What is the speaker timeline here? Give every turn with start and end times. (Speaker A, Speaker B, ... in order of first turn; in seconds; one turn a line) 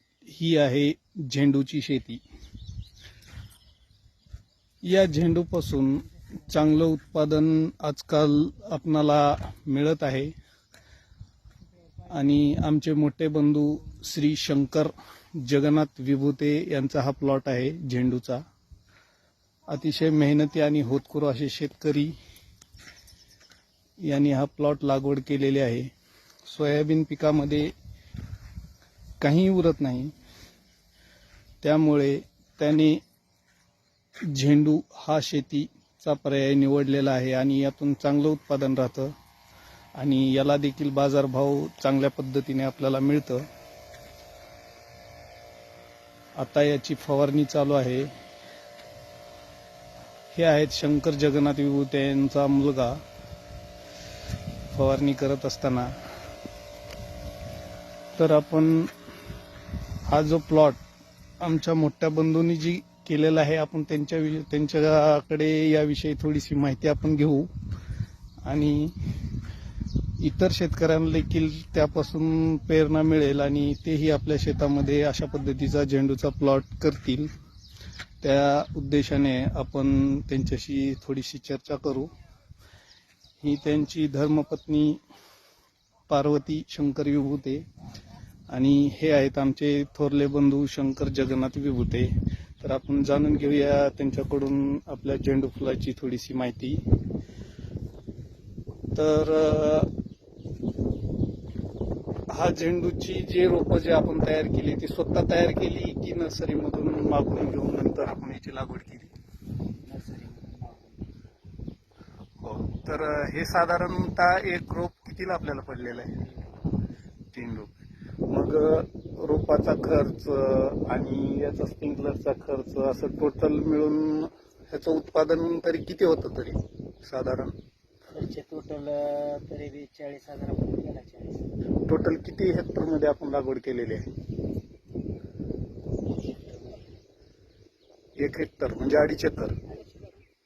Speaker A: 0.2-2.2
Speaker A: 4.8-10.3
Speaker A: 12.0-18.4
Speaker A: 19.7-22.1
Speaker A: 24.0-25.9
Speaker A: 26.4-27.7
Speaker A: 29.2-30.1
Speaker A: 31.6-33.0
Speaker A: 34.2-39.1
Speaker A: 40.0-43.5
Speaker A: 46.4-48.1
Speaker A: 50.3-53.0
Speaker A: 54.7-55.9
Speaker A: 58.2-58.9
Speaker A: 60.1-60.8
Speaker A: 61.4-67.5
Speaker A: 68.5-69.0
Speaker A: 70.2-77.3
Speaker A: 78.2-82.1
Speaker A: 83.4-85.0
Speaker A: 86.1-87.7
Speaker A: 88.5-96.8
Speaker A: 99.0-99.9
Speaker A: 102.3-109.1
Speaker B: 109.8-111.1
Speaker A: 112.4-116.2
Speaker A: 117.3-117.7
Speaker A: 118.2-127.5
Speaker B: 128.1-131.5
Speaker A: 131.8-134.1
Speaker B: 136.1-136.9
Speaker A: 138.2-139.6